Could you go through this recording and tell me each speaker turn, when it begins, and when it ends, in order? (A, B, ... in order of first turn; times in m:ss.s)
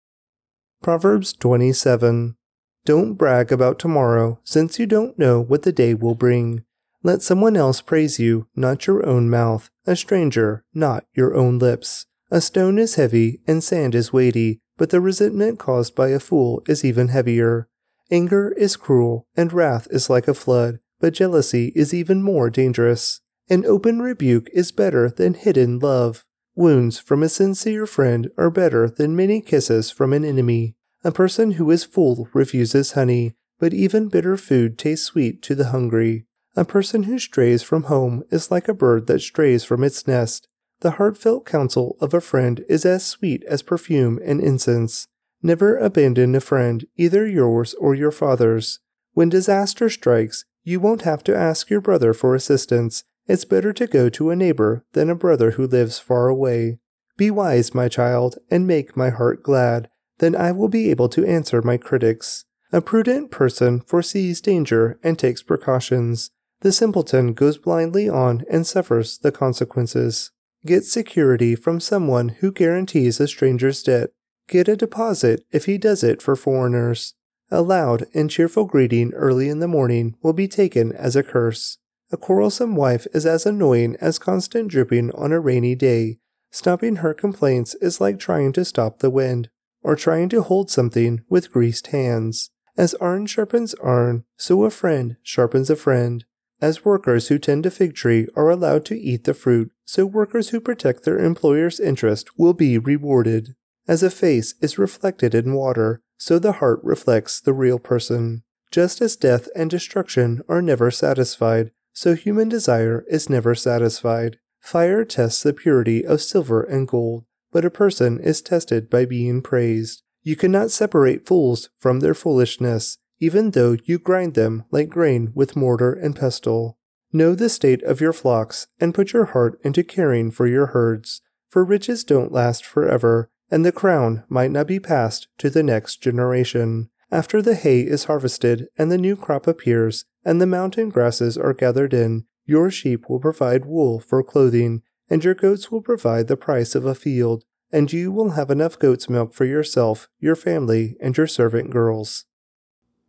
0:00.8-2:32.3 A